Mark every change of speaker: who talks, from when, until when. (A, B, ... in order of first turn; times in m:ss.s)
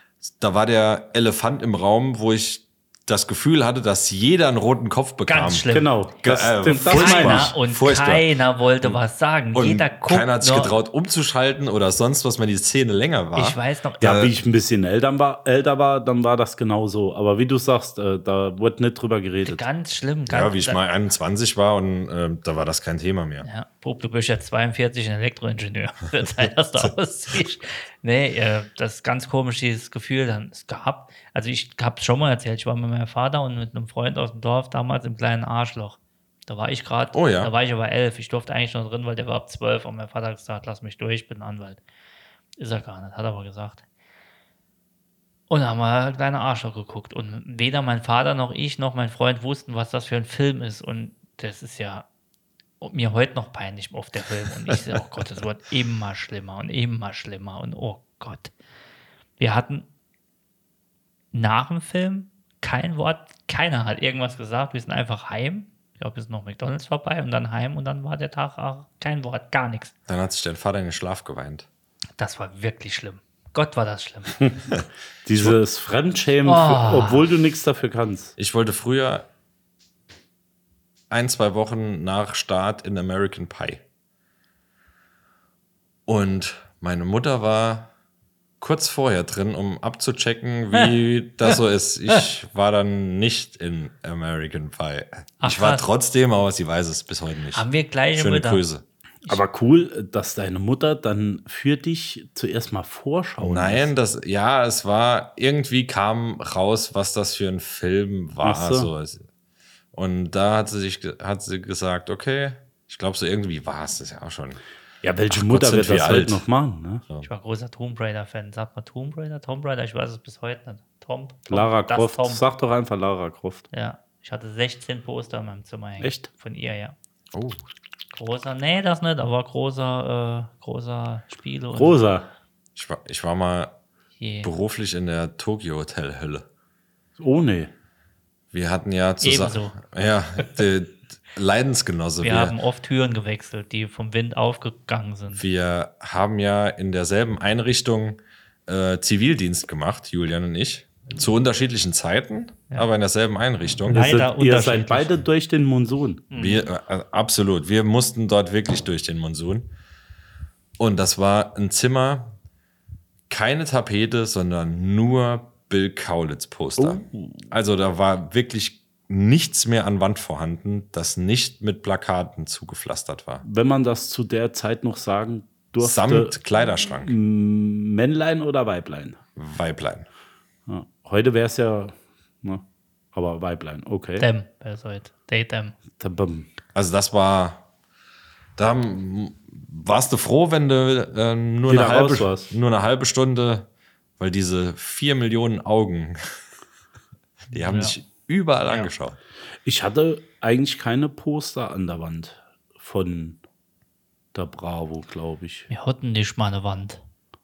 0:00.2-0:05.7 A
0:05.3-0:05.9 B
0:05.7-0:07.5 C
0:06.2-0:08.3 A
0:06.8-0:10.8 B
0:09.5-0:14.3 A
0:13.3-0:14.1 B
0:14.0-0:19.6 C
0:19.4-0:20.8 B
0:20.3-0:23.5 A
0:23.4-0:41.8 B
0:37.1-0:37.5 A
0:42.6-0:43.8 B
0:45.5-0:52.0 B
0:52.8-0:58.5 B
0:59.4-0:59.9 B
1:01.3-1:09.9 B
1:10.1-1:11.7 A
1:12.2-1:14.5 B
1:15.2-1:18.3 C
1:16.4-1:17.3 B
1:18.4-1:19.3 A
1:21.1-1:23.8 A
1:26.0-1:27.9 A
1:28.6-1:38.8 A
1:35.4-1:35.9 B
1:37.5-1:38.6 B
1:39.3-1:43.9 C
1:43.4-1:49.2 A
1:48.4-1:48.9 C
1:49.9-1:54.6 A
1:55.0-1:57.0 C
1:55.3-1:56.4 A
1:57.2-2:02.4 B
2:01.5-2:03.6 C
2:03.7-2:07.0 B
2:06.0-2:06.3 C
2:07.3-2:07.6 A
2:08.1-2:12.0 B
2:11.7-2:12.3 C
2:12.8-2:13.7 A
2:14.2-2:14.5 B
2:14.4-2:16.4 A
2:17.2-2:17.7 C
2:18.5-2:22.6 A
2:19.2-2:19.8 B
2:22.2-2:25.4 B
2:25.3-2:34.1 A
2:33.9-2:35.2 B
2:33.9-2:36.2 C
2:36.3-2:36.7 B
2:36.3-2:39.7 A
2:40.8-2:42.4 A
2:43.3-2:53.4 A
2:46.8-2:47.5 C
2:53.4-2:59.2 C
2:55.8-2:57.1 A
2:59.4-3:00.1 A
3:00.7-3:04.3 C
3:04.2-3:05.7 B
3:06.0-3:06.5 C
3:06.7-3:07.6 A
3:08.6-3:13.7 A
3:11.7-3:12.6 C
3:14.2-3:16.2 A
3:17.5-3:19.2 A
3:17.5-3:17.9 B
3:19.6-3:23.4 C
3:24.3-3:25.7 C
3:25.7-3:27.0 B